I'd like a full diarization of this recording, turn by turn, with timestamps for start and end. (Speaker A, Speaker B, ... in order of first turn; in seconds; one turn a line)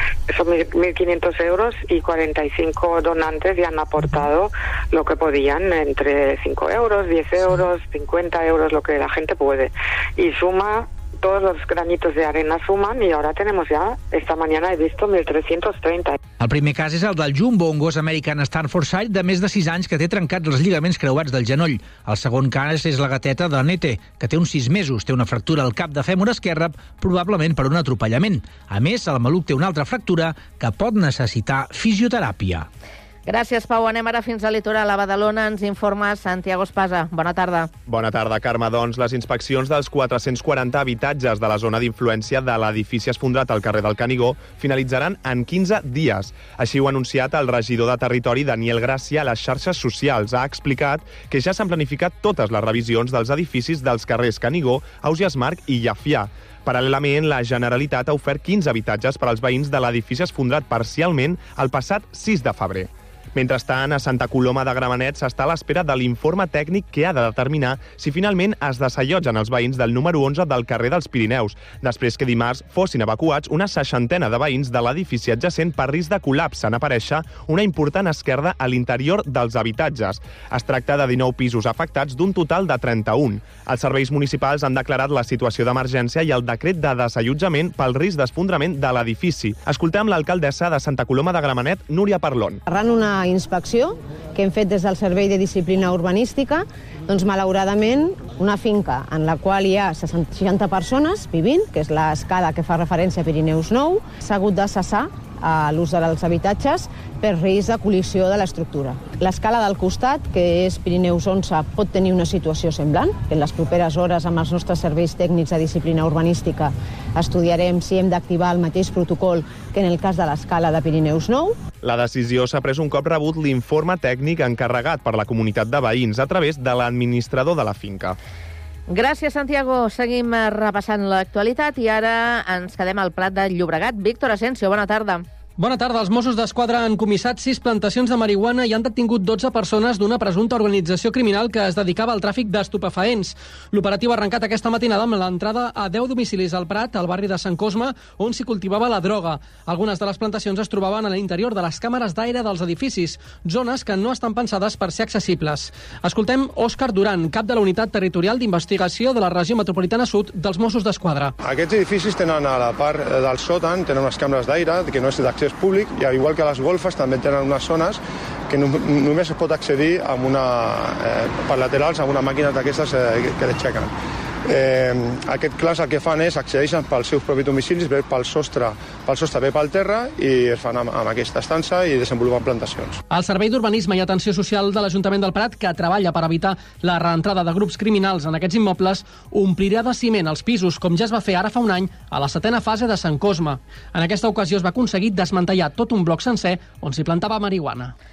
Speaker A: 0.3-16.2
Speaker B: 16.4-32.7
Speaker C: 33.2-37.7
Speaker D: 37.9-92.6
Speaker E: 92.7-121.6
Speaker D: 121.8-128.2
Speaker C: 128.9-135.2
Speaker F: 135.6-161.3
Speaker G: 161.4-173.9
Speaker G: 174.4-183.0
Speaker F: 183.1-197.9